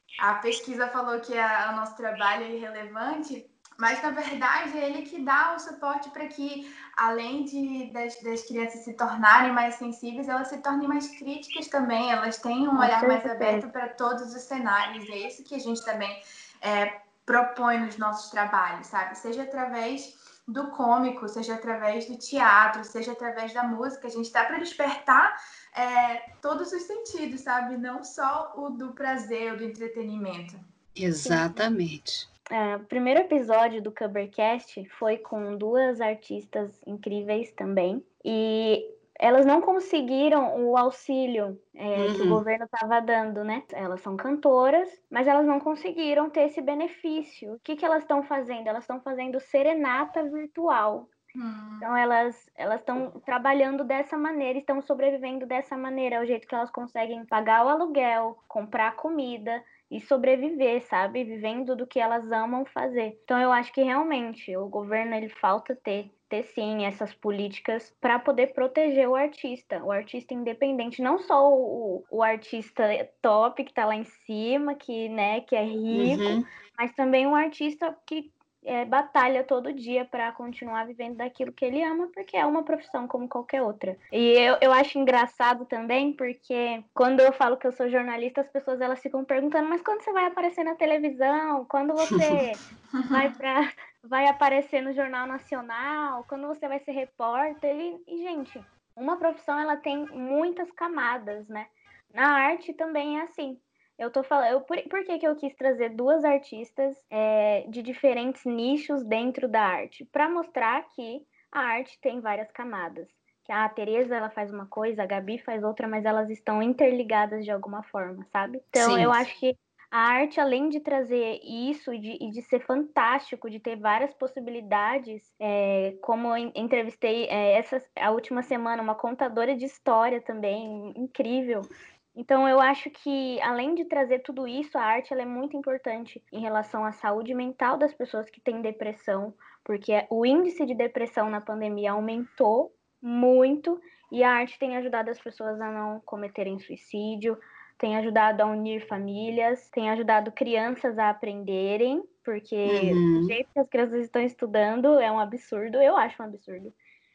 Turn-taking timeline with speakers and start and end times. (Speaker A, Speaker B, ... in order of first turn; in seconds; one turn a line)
Speaker A: 0.2-30.6
Speaker B: 12.8-13.7
Speaker C: 31.0-32.3
Speaker B: 31.2-31.6
Speaker B: 32.5-51.1
Speaker C: 42.0-42.4
Speaker A: 51.4-51.9
Speaker B: 51.8-156.8
Speaker C: 75.9-76.5
Speaker A: 93.0-93.3
Speaker C: 118.8-119.2
Speaker C: 152.7-153.3